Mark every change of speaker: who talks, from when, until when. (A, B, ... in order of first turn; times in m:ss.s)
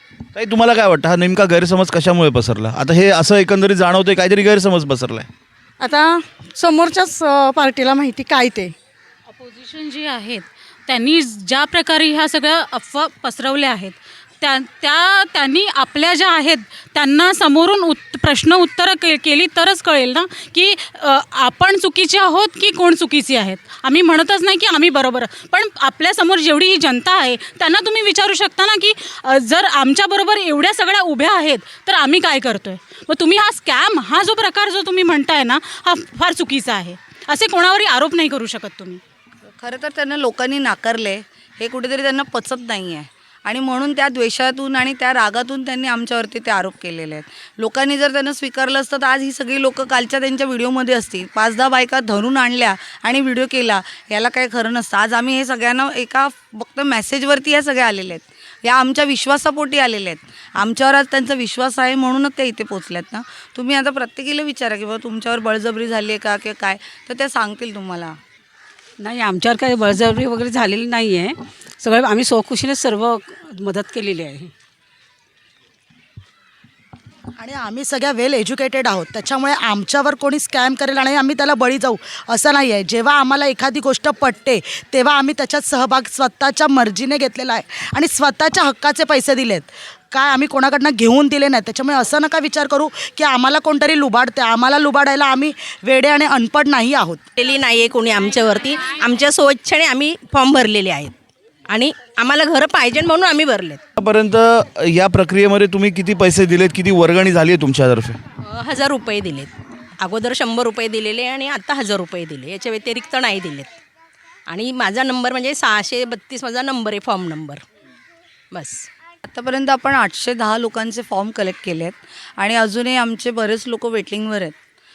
0:00.3-0:05.3 A
0:05.8-0:08.7 B
0:09.3-0:39.0 C
0:39.6-1:08.2 D
1:09.0-1:14.5 E
1:17.4-1:37.3 F
1:37.4-1:41.1 G
1:41.7-1:43.8 G
1:44.0-1:48.2 A
1:48.4-1:53.7 G
1:54.5-1:57.6 G
1:58.5-1:58.9 G
1:59.3-2:04.6 D